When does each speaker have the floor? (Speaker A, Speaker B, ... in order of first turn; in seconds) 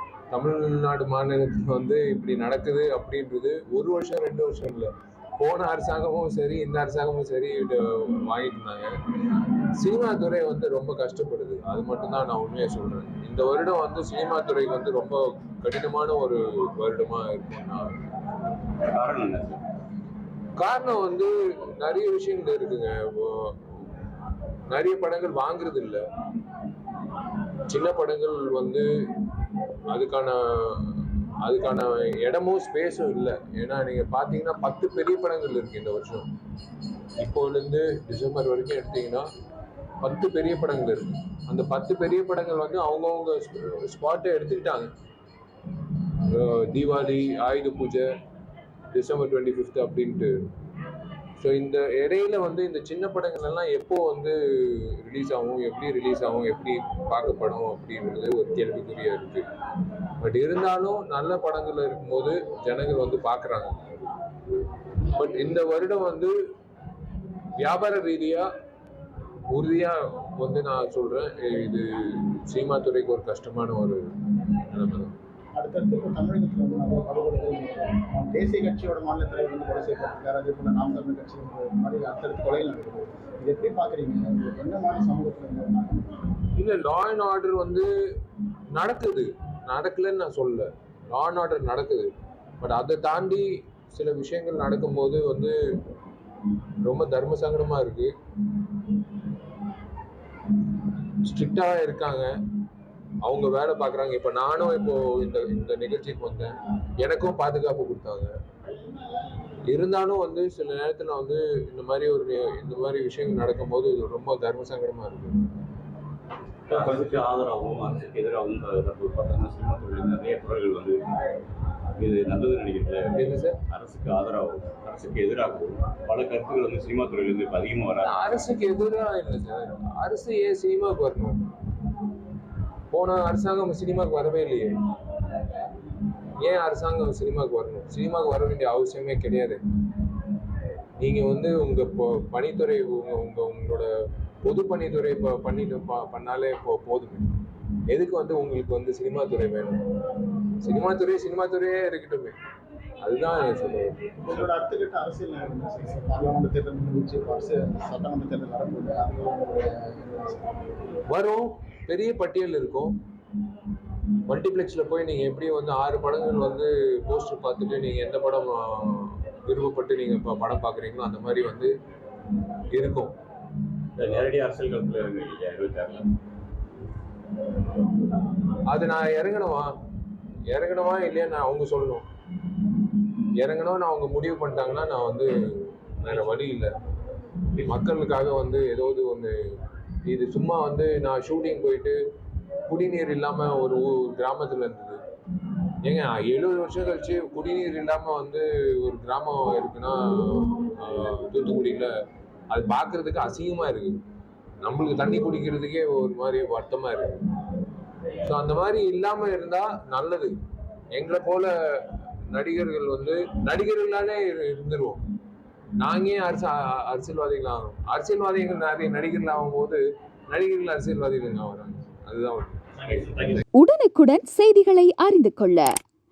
Speaker A: 0.3-17.9, 20.6-23.7, 24.7-26.0, 27.7-29.2, 29.9-36.3, 37.2-39.3, 40.0-44.9, 46.2-48.1, 48.9-50.4, 51.4-59.4, 60.2-64.1, 65.1-66.3, 67.6-68.5, 69.5-75.2, 86.5-87.9, 88.7-95.5, 96.8-98.1, 101.2-102.3, 103.2-108.3, 109.7-115.5, 116.7-117.0, 123.2-123.6, 128.0-131.5, 132.9-134.7, 136.4-139.6, 141.0-143.9, 144.4-147.3, 147.9-149.8, 150.6-152.3, 153.0-154.1, 161.1-163.0, 164.3-171.7, 172.7-173.2, 178.7-179.7, 180.5-182.1, 183.4-185.3, 186.0-186.7, 187.6-189.4, 190.0-192.0, 192.7-195.0, 195.8-201.9, 202.5-204.0, 204.6-207.2, 208.2-210.3, 210.9-215.0, 215.8-222.6
Speaker B: 18.9-19.6, 116.7-121.0, 122.0-128.3, 174.0-176.1, 222.9-223.4
Speaker C: 75.5-86.0, 154.2-160.5
Speaker D: 223.5-225.7